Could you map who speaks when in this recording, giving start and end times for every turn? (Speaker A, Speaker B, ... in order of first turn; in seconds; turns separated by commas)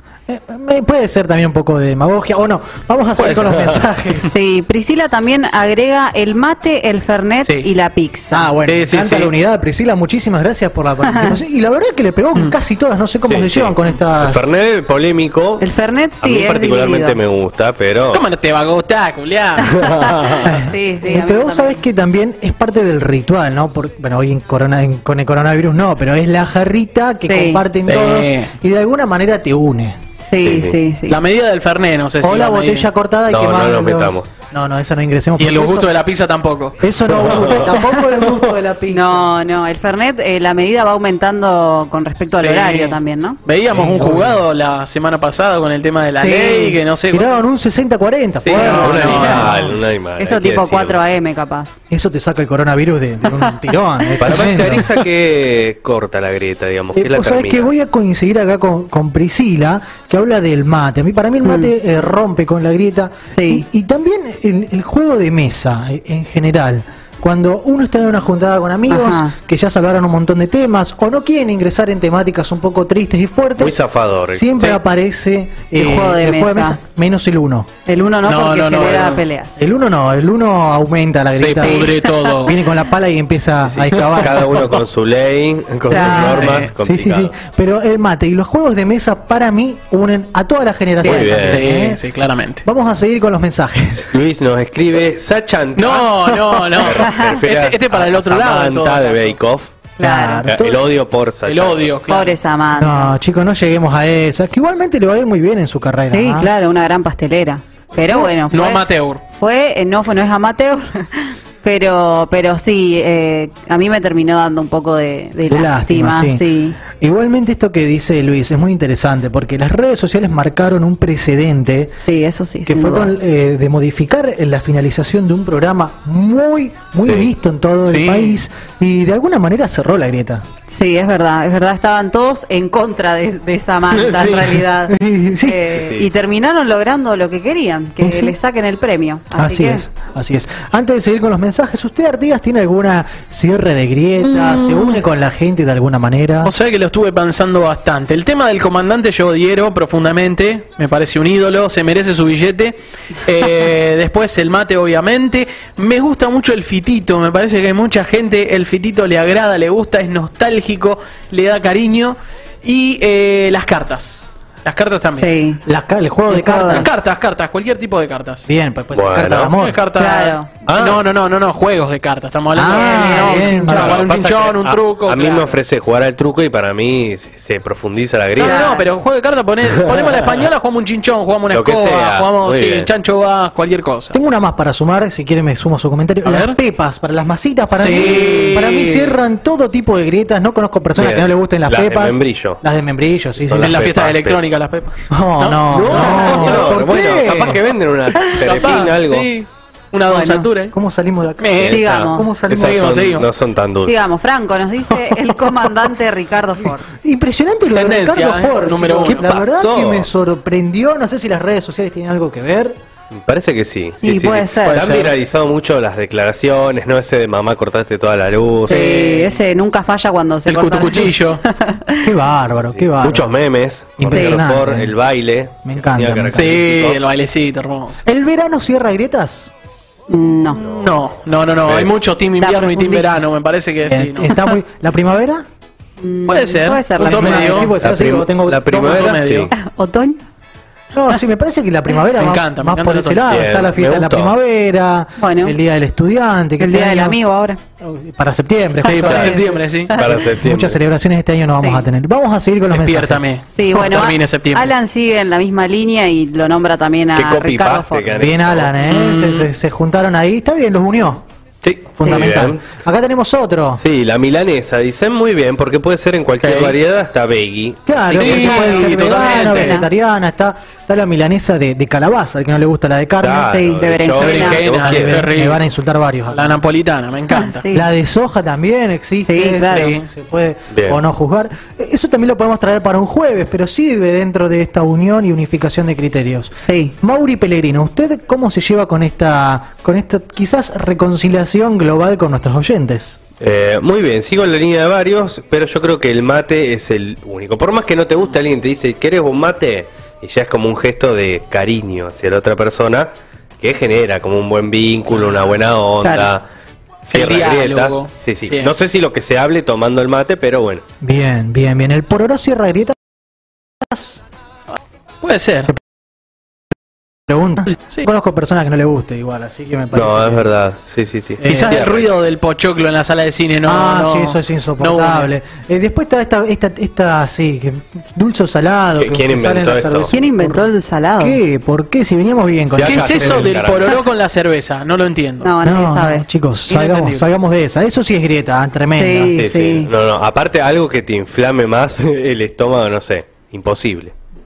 Speaker A: 0.3-4.3, Speaker B: 3.2-3.8, Speaker C: 4.2-8.5, Speaker A: 8.3-14.5, Speaker B: 8.7-9.3, Speaker C: 11.0-11.4, Speaker D: 13.2-15.7, Speaker C: 15.6-17.2, Speaker D: 16.2-18.2, Speaker B: 18.1-20.3, Speaker C: 19.8-21.8, Speaker A: 20.4-30.0, Speaker C: 27.2-27.6, Speaker B: 27.8-28.5, Speaker C: 30.2-31.2, Speaker D: 30.4-30.8, Speaker B: 31.1-32.9, Speaker A: 32.2-35.9, Speaker D: 33.3-34.3, Speaker B: 35.4-36.8, Speaker A: 36.8-39.3, Speaker D: 37.2-37.6, Speaker C: 38.9-43.4, Speaker B: 42.4-47.4, Speaker A: 43.7-44.4, Speaker C: 46.2-46.8, Speaker A: 47.1-49.6, Speaker B: 48.4-49.7, Speaker D: 48.6-51.0, Speaker C: 48.7-49.6, Speaker C: 50.2-51.8, Speaker A: 51.9-54.9, Speaker D: 54.2-57.7, Speaker A: 57.0-73.8, Speaker C: 61.4-61.7, Speaker C: 63.3-63.6, Speaker C: 68.9-69.3, Speaker D: 73.6-74.5, Speaker A: 74.3-77.7, Speaker C: 75.8-76.8, Speaker C: 77.8-79.6, Speaker B: 78.2-79.2, Speaker A: 79.6-81.9, Speaker B: 81.3-82.6, Speaker C: 81.6-82.5, Speaker A: 82.4-84.8, Speaker D: 83.7-87.3, Speaker C: 85.9-86.5, Speaker A: 85.9-92.0, Speaker B: 86.0-86.7, Speaker B: 91.0-92.6, Speaker D: 91.0-91.6, Speaker A: 92.6-94.2, Speaker D: 94.1-96.1, Speaker B: 95.8-99.4, Speaker A: 96.1-96.8, Speaker D: 96.7-99.8, Speaker C: 96.9-97.4, Speaker C: 100.0-100.5, Speaker A: 100.0-100.8, Speaker D: 100.5-101.9, Speaker B: 101.4-102.4, Speaker C: 102.1-103.2, Speaker A: 102.8-106.5, Speaker C: 106.1-116.8, Speaker B: 108.5-109.2, Speaker A: 115.5-122.0, Speaker C: 122.0-123.2, Speaker A: 122.7-130.4, Speaker D: 127.0-127.3, Speaker B: 127.9-128.4, Speaker C: 130.7-139.9, Speaker B: 133.9-134.6, Speaker A: 134.9-135.7, Speaker D: 135.7-136.2, Speaker A: 138.0-138.4, Speaker A: 139.4-146.5, Speaker B: 144.2-145.0, Speaker B: 146.4-165.3, Speaker C: 165.1-165.6, Speaker A: 165.7-166.9, Speaker C: 166.3-166.9, Speaker B: 166.7-168.5, Speaker A: 168.5-169.8, Speaker D: 168.9-169.5, Speaker B: 169.5-175.6, Speaker C: 170.0-170.5, Speaker D: 170.7-171.0, Speaker A: 172.6-174.0, Speaker C: 172.7-173.9, Speaker D: 173.7-178.7, Speaker B: 178.4-184.2, Speaker C: 178.4-178.9, Speaker D: 181.5-182.9, Speaker A: 184.1-193.8, Speaker B: 186.2-186.6, Speaker B: 187.8-189.2, Speaker D: 190.9-192.6, Speaker D: 193.4-194.4, Speaker B: 193.6-196.8, Speaker A: 195.1-197.7, Speaker D: 195.7-199.3, Speaker B: 198.2-200.8, Speaker C: 200.1-200.5, Speaker A: 200.7-202.9, Speaker B: 201.4-201.8, Speaker D: 201.6-204.0, Speaker C: 201.6-202.3, Speaker B: 202.5-203.3, Speaker C: 203.8-206.9, Speaker A: 204.9-205.7, Speaker A: 206.9-212.8, Speaker B: 207.7-209.5, Speaker D: 209.3-210.1, Speaker D: 213.1-218.8, Speaker C: 214.0-214.8, Speaker B: 214.6-215.2, Speaker B: 218.7-219.4, Speaker C: 218.7-222.1, Speaker B: 220.5-221.4, Speaker A: 222.0-223.3, Speaker D: 222.5-227.0, Speaker A: 224.0-224.9, Speaker C: 224.1-224.4, Speaker A: 225.6-226.6, Speaker B: 226.3-228.0, Speaker A: 228.1-229.5, Speaker C: 230.1-230.6, Speaker D: 230.6-231.0, Speaker B: 230.6-234.3, Speaker D: 231.7-232.0, Speaker C: 232.4-233.2, Speaker A: 233.9-235.4, Speaker C: 234.3-234.6, Speaker C: 236.0-237.7, Speaker B: 236.3-237.7, Speaker A: 237.0-239.1, Speaker D: 237.8-239.5, Speaker B: 238.7-239.5, Speaker C: 239.5-240.2, Speaker A: 240.9-247.2, Speaker B: 242.2-243.3, Speaker D: 243.3-244.3, Speaker C: 245.2-245.6, Speaker C: 246.6-247.6, Speaker A: 247.8-249.4, Speaker C: 248.8-250.1, Speaker B: 248.8-249.9, Speaker D: 249.9-250.8, Speaker A: 250.0-253.3, Speaker C: 251.6-251.9, Speaker B: 252.7-254.7, Speaker C: 253.6-258.3, Speaker D: 257.1-258.7, Speaker A: 258.1-261.2, Speaker B: 258.9-259.5, Speaker B: 261.6-261.9, Speaker A: 262.0-263.8, Speaker C: 262.0-262.3, Speaker D: 262.1-262.6, Speaker D: 263.8-268.6, Speaker B: 266.4-266.8, Speaker A: 267.9-273.5, Speaker B: 268.1-269.8, Speaker C: 268.7-269.9, Speaker D: 273.2-275.3, Speaker C: 273.5-274.6, Speaker B: 274.2-275.7, Speaker A: 274.8-276.6, Speaker B: 276.3-277.6, Speaker C: 277.3-277.9, Speaker A: 277.7-293.2, Speaker C: 279.2-280.0, Speaker B: 279.7-280.1, Speaker D: 280.7-281.0, Speaker C: 286.6-286.9, Speaker D: 293.4-306.5, Speaker B: 305.1-306.2, Speaker B: 307.1-308.7, Speaker D: 307.1-310.8, Speaker A: 311.0-313.0, Speaker A: 313.8-314.2, Speaker B: 314.7-315.7, Speaker A: 317.3-320.5, Speaker D: 319.9-322.1, Speaker A: 321.4-321.7, Speaker B: 321.4-325.3, Speaker A: 323.7-333.6, Speaker D: 329.0-330.1, Speaker C: 330.1-331.4, Speaker D: 332.7-334.0, Speaker B: 332.8-335.5, Speaker C: 335.4-336.3, Speaker A: 335.6-339.3, Speaker B: 336.7-337.3, Speaker C: 338.9-339.9, Speaker D: 339.4-344.1